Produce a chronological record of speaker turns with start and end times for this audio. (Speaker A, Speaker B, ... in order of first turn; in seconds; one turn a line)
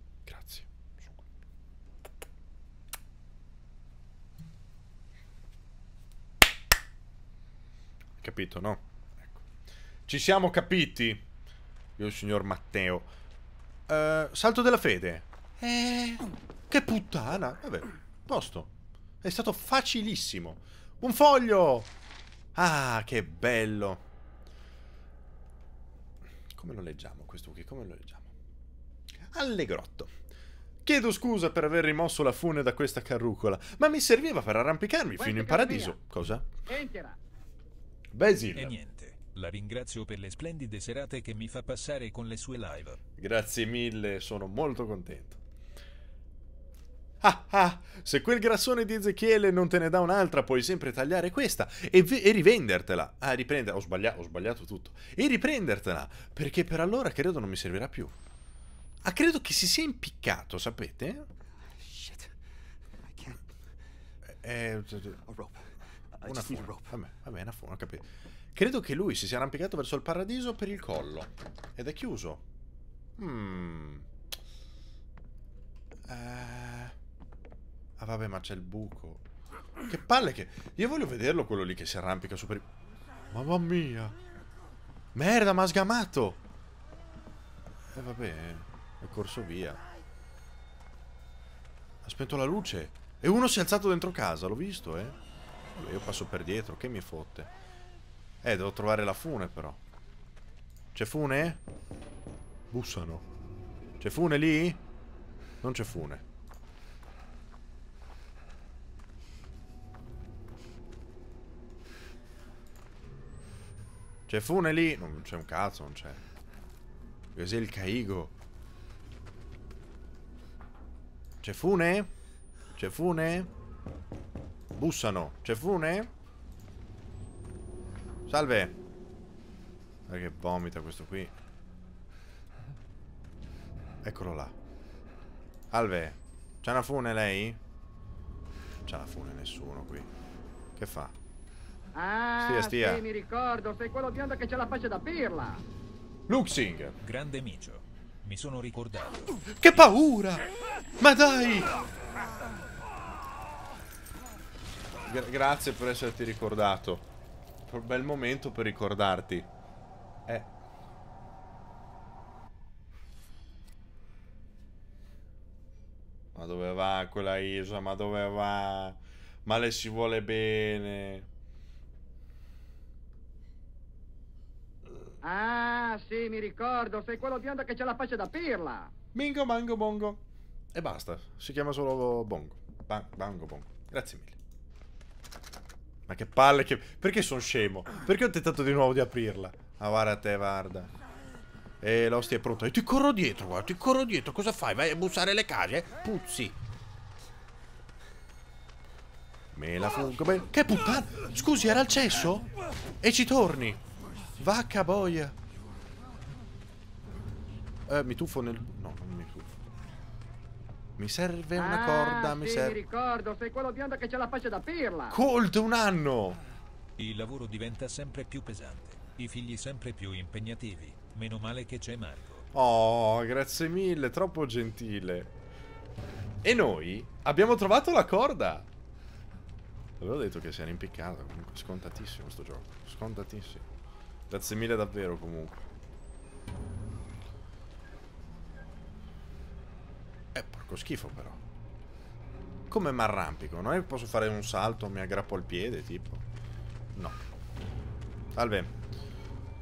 Speaker A: 0.2-1.2
Speaker A: 8.2-9.4
Speaker A: 10.1-11.2
Speaker A: 12.0-13.1
Speaker A: 13.9-21.9
Speaker A: 22.5-24.0
Speaker A: 26.5-28.3
Speaker A: 29.3-30.1
Speaker A: 30.8-36.5
Speaker B: 35.2-36.0
Speaker B: 36.7-37.2
Speaker A: 38.1-38.7
Speaker C: 38.5-43.0
Speaker A: 43.2-45.4
Speaker A: 47.2-58.1
Speaker A: 59.0-61.2
Speaker D: 61.7-62.3
Speaker D: 63.0-63.4
Speaker A: 64.4-65.2
Speaker D: 65.2-67.0
Speaker A: 66.2-72.4
Speaker A: 73.2-74.1
Speaker A: 76.1-76.9
Speaker A: 78.0-79.2
Speaker A: 79.8-82.7
Speaker A: 83.3-84.2
Speaker A: 85.1-86.4
Speaker A: 87.9-89.8
Speaker A: 92.0-95.2
Speaker A: 95.7-97.5
Speaker A: 98.4-99.8
Speaker A: 100.9-101.6
Speaker A: 102.7-103.2
Speaker A: 104.0-104.8
Speaker A: 105.6-106.2
Speaker A: 114.3-116.2
Speaker A: 117.3-118.3
Speaker A: 121.4-122.1
Speaker A: 122.8-123.5
Speaker A: 124.7-126.1
Speaker A: 128.3-128.8
Speaker A: 130.1-131.3
Speaker A: 134.0-134.5
Speaker A: 135.7-137.6
Speaker A: 138.8-140.1
Speaker A: 140.8-141.1
Speaker B: 141.9-145.6
Speaker A: 142.4-143.0
Speaker A: 146.3-146.9
Speaker C: 147.0-149.2
Speaker A: 149.5-151.8
Speaker A: 155.0-157.1
Speaker A: 157.7-159.5
Speaker A: 166.3-171.3
Speaker B: 175.2-178.9
Speaker A: 179.1-180.2
Speaker A: 180.7-184.3
Speaker A: 186.1-190.9
Speaker A: 191.8-196.6
Speaker A: 199.5-202.5
Speaker A: 203.0-203.8
Speaker A: 204.4-205.3
Speaker A: 207.9-209.5
Speaker A: 211.0-212.8
Speaker B: 211.5-215.2
Speaker A: 215.1-216.4
Speaker C: 217.0-222.5
Speaker A: 222.5-225.3
Speaker A: 226.4-228.7
Speaker A: 230.0-233.6
Speaker A: 234.3-235.6
Speaker A: 240.3-241.4
Speaker A: 242.7-246.2
Speaker A: 248.3-248.7